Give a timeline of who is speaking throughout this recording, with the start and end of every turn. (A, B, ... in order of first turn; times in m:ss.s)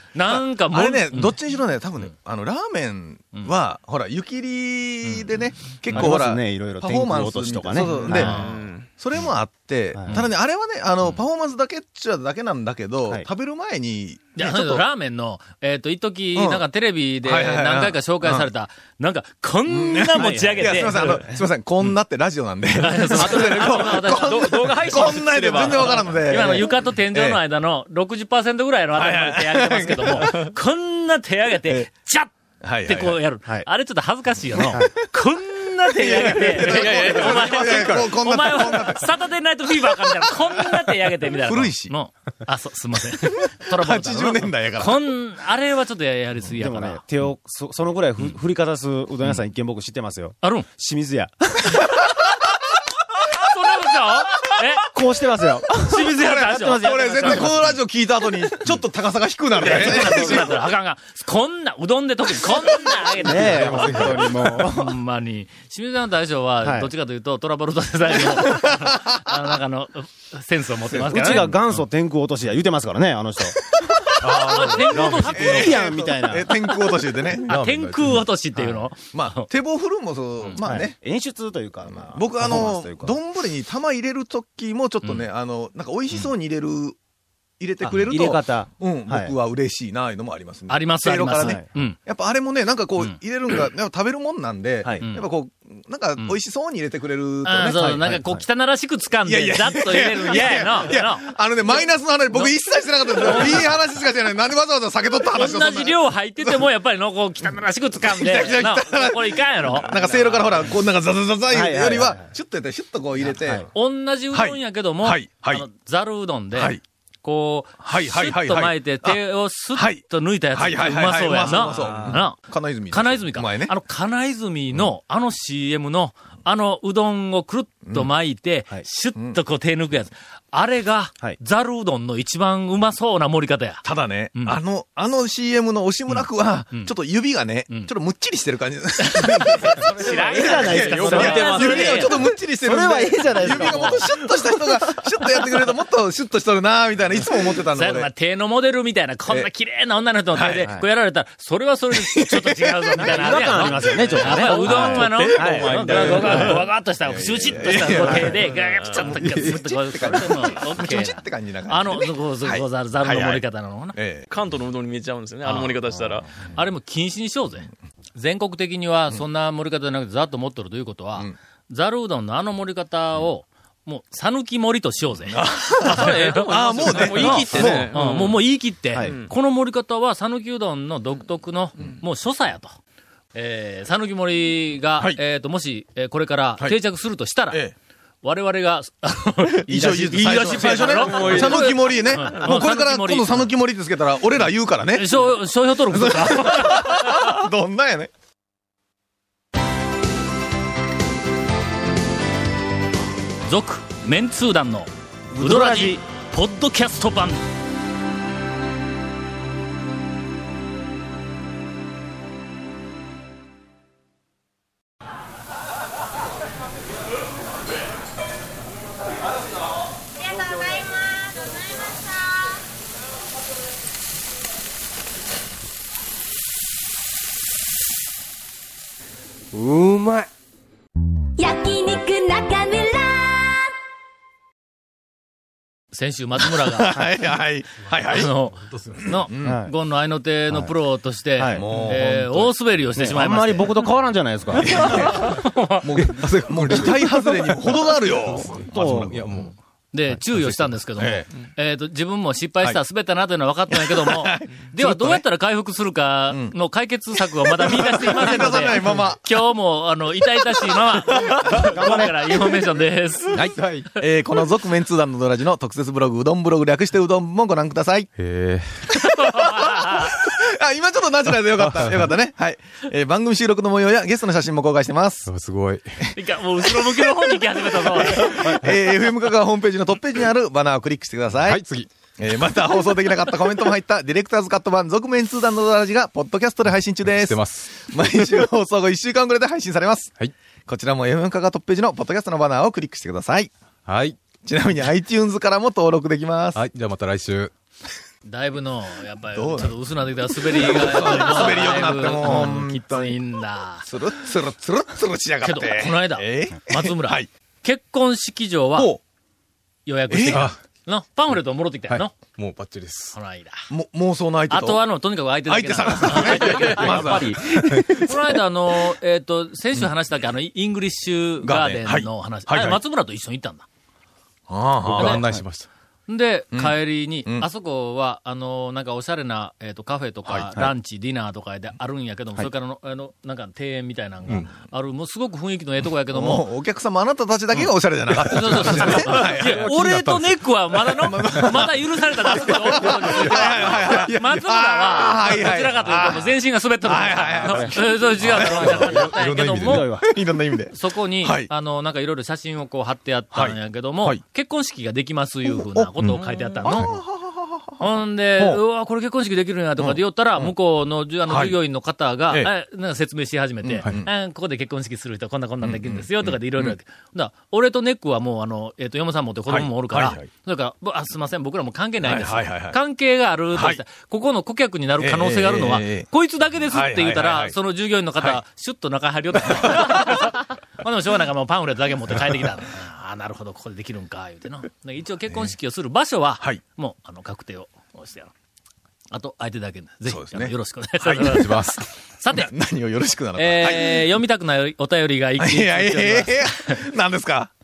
0:00.1-0:01.4 A
0:00.2-0:14.8 B
0:05.9-0:08.4 C
0:07.8-0:08.9 D
0:08.1-0:08.6 A
0:09.9-0:10.2 C
0:14.4-0:21.2 A
0:16.4-0:16.7 B
0:17.2-0:18.5 B
0:19.7-0:27.4 B
0:20.1-0:21.3 C
0:22.8-0:32.3 A
0:23.2-0:26.3 D
0:29.0-0:30.5 B
0:32.6-0:33.2 B
0:32.8-0:47.0 A
0:35.9-0:39.1 B
0:36.7-0:37.8 D
0:39.9-0:40.8 B
0:41.3-0:41.9 B
0:43.3-0:45.0 B
0:46.6-0:52.0 C
0:50.4-0:50.7 A
0:53.3-0:54.9 A
0:54.9-0:57.7 C
0:55.8-0:57.7 A
0:55.8-1:00.6 B
0:59.6-1:11.5 A
0:59.6-1:00.4 C
1:03.2-1:05.0 C
1:03.8-1:04.0 B
1:06.6-1:06.9 C
1:08.1-1:09.2 B
1:10.9-1:11.6 B
1:11.0-1:16.7 C
1:14.1-1:17.6 B
1:14.3-1:16.0 A
1:17.5-1:19.5 A
1:17.5-1:18.2 E
1:19.1-1:21.0 B
1:20.6-1:23.2 C
1:21.9-1:27.0 B
1:27.6-1:38.0 B
1:27.8-1:29.4 C
1:30.7-1:32.0 A
1:31.4-1:31.7 C
1:34.8-1:35.1 C
1:35.0-1:35.2 A
1:37.4-1:41.8 A
1:37.7-1:38.4 C
1:39.2-1:46.6 B
1:43.1-1:43.7 A
1:45.3-1:50.7 A
1:48.0-1:53.7 B
1:51.5-1:52.3 C
1:53.2-1:53.7 C
1:53.7-2:14.6 A
1:54.3-1:55.7 B
1:56.5-1:56.8 B
1:57.8-1:59.2 B
1:59.8-2:03.7 B
2:01.5-2:02.2 C
2:13.8-2:28.1 B
2:16.1-2:16.9 A
2:19.0-2:22.2 A
2:20.0-2:25.4 C
2:20.4-2:22.1 D
2:23.5-2:23.9 A
2:27.7-2:44.0 A
2:30.3-2:30.8 B
2:31.9-2:43.4 B
2:33.0-2:36.6 C
2:34.7-2:36.6 D
2:37.9-2:38.3 C
2:38.5-2:39.0 D
2:43.9-2:44.3 B
2:44.3-2:46.3 D
2:45.4-2:45.8 A
2:46.5-3:02.7 A
2:55.3-2:57.9 B
2:55.8-2:58.4 D
2:59.0-2:59.3 D
3:03.4-3:07.6 A
3:07.5-3:07.8 B
3:08.2-3:13.5 A
3:09.6-3:15.4 B
3:09.7-3:10.8 C
3:10.6-3:12.5 D
3:14.9-3:17.4 A
3:15.9-3:18.1 B
3:23.5-3:27.4 A
3:25.3-3:26.0 C
3:40.3-3:41.7 F
3:51.4-3:53.6 F
3:55.9-3:57.0 A
3:56.6-3:58.3 B
3:58.1-4:03.8 A
3:59.1-3:59.6 B
3:59.4-3:59.7 C
4:00.5-4:00.7 C
4:01.4-4:01.9 C
4:01.5-4:02.5 B
4:02.9-4:05.2 C
4:04.6-4:09.5 B
4:04.8-4:06.2 A
4:06.7-4:07.5 C
4:08.7-4:09.3 C
4:09.0-4:09.5 E
4:09.9-4:23.4 A
4:11.0-4:11.3 B
4:13.7-4:15.2 B
4:17.2-4:19.4 B
4:20.6-4:22.0 B
4:21.5-4:22.4 C
4:23.3-4:28.1 B
4:28.2-4:28.8 E
4:29.0-4:30.2 A
4:29.0-4:35.3 B
4:31.6-4:32.1 E
4:35.2-4:36.0 E
4:36.1-4:53.5 B
4:36.1-4:38.6 A
4:41.4-4:41.9 E
4:47.1-4:47.8 E
4:53.9-4:54.2 E
4:54.4-4:56.7 B
4:56.6-4:57.5 E
4:58.2-5:03.9 A
4:59.3-4:59.8 B
5:00.3-5:03.2 B
5:03.8-5:07.3 B
5:05.4-5:08.9 A
5:08.8-5:09.0 B
5:09.9-5:12.2 A
5:10.1-5:10.5 B
5:10.3-5:10.6 E
5:12.2-5:13.2 E
5:13.1-5:13.6 A
5:13.7-5:14.8 B
5:14.5-5:23.7 A
5:15.5-5:18.4 B
5:16.8-5:17.3 C
5:21.4-5:22.8 B
5:24.5-5:25.3 B
5:24.8-5:25.7 E
5:25.0-5:25.2 A
5:26.1-5:36.5 A
5:26.5-5:27.5 B
5:30.2-5:30.5 B
5:36.1-5:40.2 B
5:38.2-5:49.9 A
5:39.7-5:40.2 E
5:40.8-5:51.5 B
5:47.4-5:49.0 C
5:49.2-5:49.5 E
5:49.6-5:50.2 C
5:50.7-5:57.0 A
5:53.3-5:54.2 B
5:55.5-5:57.8 B
5:57.8-6:28.3 A
5:59.8-6:00.5 B
6:01.3-6:01.6 B
6:03.6-6:04.1 B
6:05.6-6:06.8 B
6:09.5-6:10.3 B
6:12.0-6:12.8 B
6:13.5-6:13.8 B
6:15.0-6:16.1 B
6:16.7-6:17.6 B
6:19.4-6:20.2 B
6:29.1-6:32.5 A
6:30.1-6:31.6 B
6:31.3-6:31.8 E
6:32.3-6:34.1 B
6:33.4-6:36.8 A
6:35.4-6:37.5 B